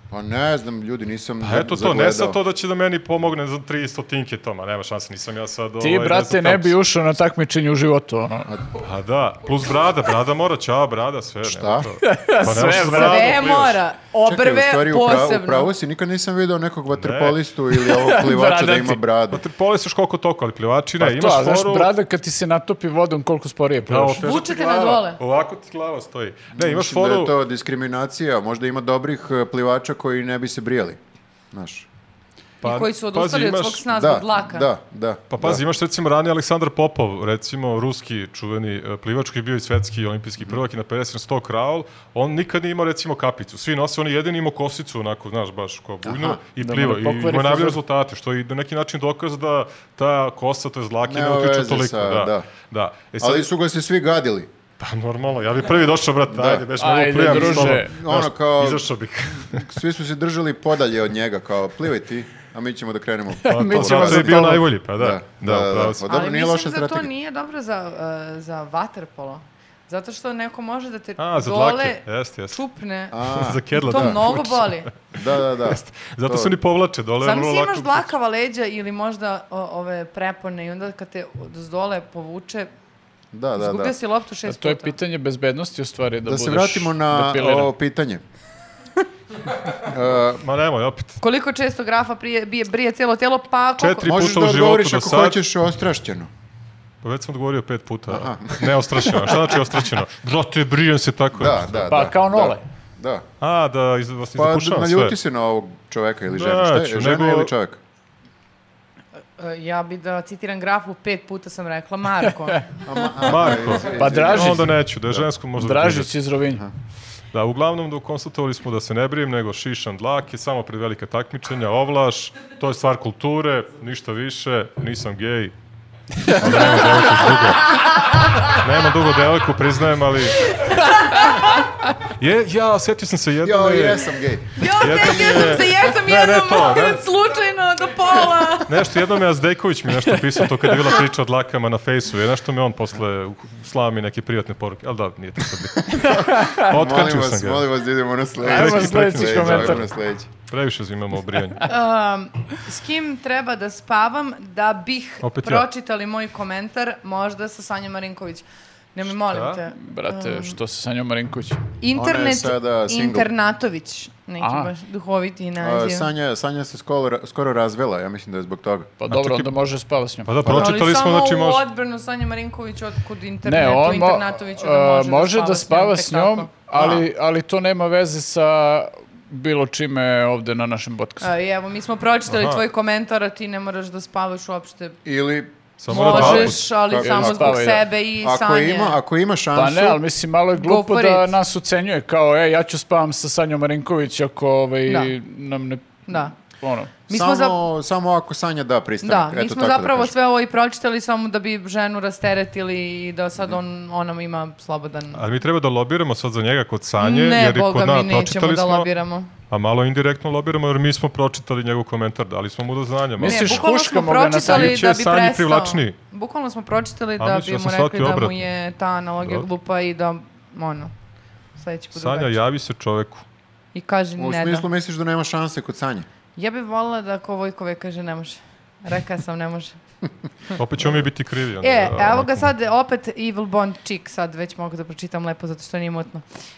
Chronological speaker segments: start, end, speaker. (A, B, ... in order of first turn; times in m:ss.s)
0:00.1-0:02.4 A
0:01.4-0:06.8 B
0:05.8-0:08.5 C
0:08.8-0:13.8 B
0:11.4-0:11.9 A
0:12.0-0:13.4 C
0:12.8-0:15.7 D
0:14.2-0:19.4 A
0:16.9-0:17.4 B
0:17.7-0:19.0 C
0:19.3-0:21.9 B
0:21.0-0:24.2 C
0:23.8-0:27.3 B
0:24.2-0:25.2 D
0:26.5-0:31.0 A
0:31.5-0:31.9 A
0:32.6-0:33.8 B
0:32.6-0:34.7 D
0:33.9-0:35.6 A
0:35.3-0:53.5 B
0:46.0-0:46.4 A
0:46.6-0:47.8 C
0:51.0-0:52.5 A
0:53.2-0:54.5 A
0:54.8-0:59.7 B
0:56.3-0:56.7 A
0:56.8-0:58.0 C
0:57.2-0:58.9 A
0:59.4-1:07.1 A
1:03.4-1:04.6 C
1:03.5-1:06.0 B
1:06.0-1:13.2 D
1:11.2-1:12.6 B
1:13.1-1:14.2 A
1:13.3-1:15.0 B
1:13.7-1:14.9 D
1:15.1-1:16.6 A
1:15.6-1:18.1 B
1:17.2-1:22.7 D
1:23.3-1:23.9 A
1:23.6-1:25.0 D
1:24.4-1:27.7 C
1:26.2-1:28.2 A
1:29.8-1:30.4 A
1:30.4-1:31.2 B
1:31.2-1:34.2 D
1:33.8-1:35.4 B
1:34.0-1:36.3 A
1:37.0-1:41.8 B
1:38.1-1:39.0 A
1:41.3-1:43.2 A
1:41.9-1:42.6 C
1:43.4-1:45.2 B
1:44.3-1:47.8 A
1:46.3-1:47.5 B
1:49.4-1:52.7 D
1:52.8-1:55.2 A
1:53.2-1:56.1 B
1:53.9-1:54.8 C
1:55.6-1:56.6 C
1:57.3-2:05.5 B
2:06.3-2:10.5 B
2:07.4-2:08.5 D
2:10.6-2:11.3 D
2:12.0-2:14.1 B
2:13.4-2:14.6 A
2:14.6-2:18.9 D
2:14.6-2:17.0 B
2:18.7-2:27.7 B
2:25.9-2:30.3 A
2:26.0-2:26.7 C
2:28.4-2:31.7 B
2:28.4-2:29.8 C
2:31.6-2:40.6 D
2:35.2-2:35.6 B
2:39.3-2:39.6 B
2:39.7-2:41.6 C
2:41.8-2:46.1 D
2:41.9-2:43.3 A
2:44.4-2:44.7 C
2:45.6-2:48.9 A
2:49.0-2:50.3 C
2:49.1-2:49.5 B
2:50.2-2:51.6 B
2:50.4-2:50.8 A
2:50.5-2:56.5 D
2:53.4-3:01.3 C
2:56.7-2:57.0 A
3:01.2-3:05.0 D
3:02.3-3:02.6 B
3:05.0-3:10.0 A
3:05.8-3:06.6 B
3:05.9-3:09.0 D
3:07.0-3:07.8 C
3:09.5-3:16.9 C
3:10.5-3:11.3 D
3:14.9-3:15.1 D
3:16.1-3:16.3 D
3:17.1-3:17.6 D
3:17.1-3:20.1 A
3:19.0-3:25.2 D
3:25.1-3:28.9 B
3:27.0-3:29.3 D
3:29.5-3:33.6 B
3:33.2-3:34.8 C
3:33.2-3:40.9 D
3:34.4-3:36.0 B
3:37.2-3:38.4 B
3:41.6-3:42.4 D
3:41.9-3:43.2 B
3:43.7-3:44.7 D
3:44.2-3:46.1 A
3:46.4-3:49.8 D
3:50.5-3:52.5 B
3:51.6-3:56.2 D